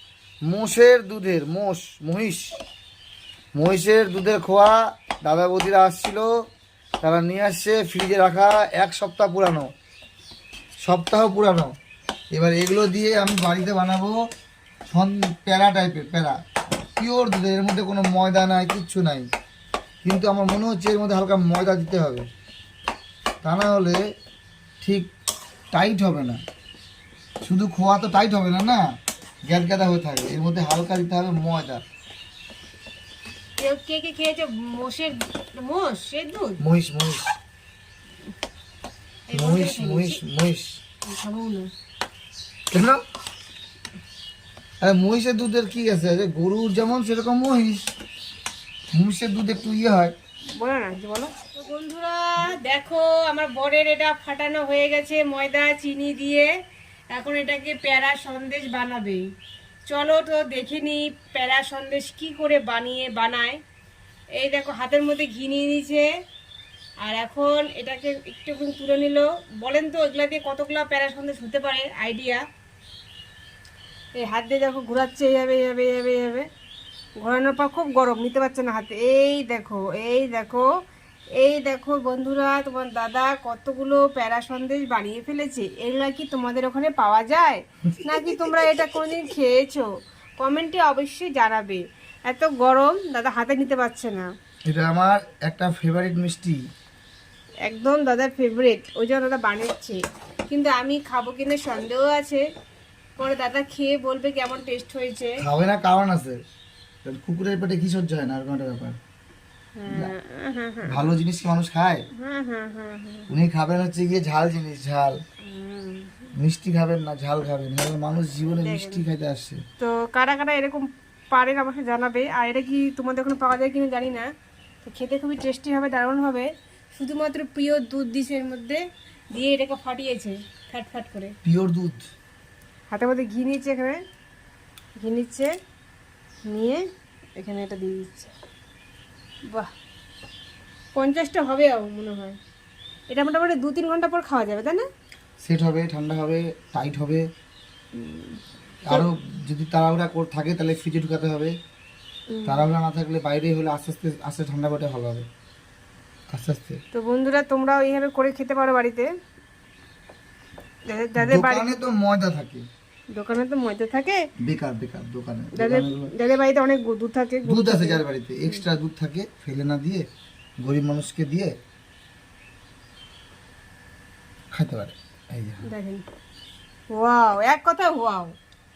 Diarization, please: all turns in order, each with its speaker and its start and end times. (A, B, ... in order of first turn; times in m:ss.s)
0:00.5-0:02.5 A
0:03.5-0:06.3 A
0:07.0-0:09.7 A
0:10.8-0:11.7 A
0:12.3-0:14.3 A
0:14.9-0:16.4 A
0:17.0-0:19.3 A
0:20.0-0:22.3 A
0:23.4-0:24.0 A
0:24.8-0:25.1 A
0:25.7-0:26.4 A
0:27.4-0:28.9 A
0:29.5-0:31.8 A
0:33.6-0:36.6 B
0:36.6-0:37.3 A
0:39.3-0:40.2 B
0:39.3-0:40.8 A
0:41.1-0:41.7 B
0:42.7-0:43.0 A
0:44.8-0:47.9 A
0:48.9-0:50.1 A
0:50.5-0:56.5 B
0:57.1-0:59.2 B
0:59.9-1:03.6 B
1:04.4-1:06.1 B
1:07.0-1:12.4 B
1:14.2-1:16.5 B
1:17.2-1:20.7 B
1:21.4-1:34.3 B
1:27.9-1:28.6 A
1:34.7-1:36.6 A
1:37.6-1:42.4 B
1:43.2-1:45.4 B
1:45.4-1:46.4 A
1:47.0-1:49.0 A
1:49.8-1:51.1 B
1:50.8-1:52.0 A
1:52.1-1:53.3 B
1:53.3-1:55.2 A
1:55.4-1:56.3 B
1:56.4-1:59.6 A
1:58.5-1:59.0 B
1:59.8-2:04.3 B
2:04.8-2:08.8 B
2:09.3-2:11.3 B
2:11.4-2:12.0 A
2:12.9-2:14.0 B
2:15.0-2:15.5 B
2:16.5-2:16.8 B
2:17.4-2:18.3 B
2:20.9-2:22.4 B
2:23.1-2:24.8 B
2:25.4-2:27.2 A
2:27.9-2:28.4 B
2:28.9-2:31.5 A
2:32.3-2:32.7 B
2:32.4-2:35.2 A
2:36.3-2:36.8 A
2:36.9-2:39.1 B
2:40.9-2:41.7 B
2:41.2-2:42.6 A
2:43.1-2:44.2 B
2:44.4-2:46.1 A
2:45.6-2:48.6 B
2:47.4-2:50.0 A
2:50.6-2:51.5 A
2:54.5-2:55.6 A
2:55.6-2:56.0 B
2:56.9-2:58.3 B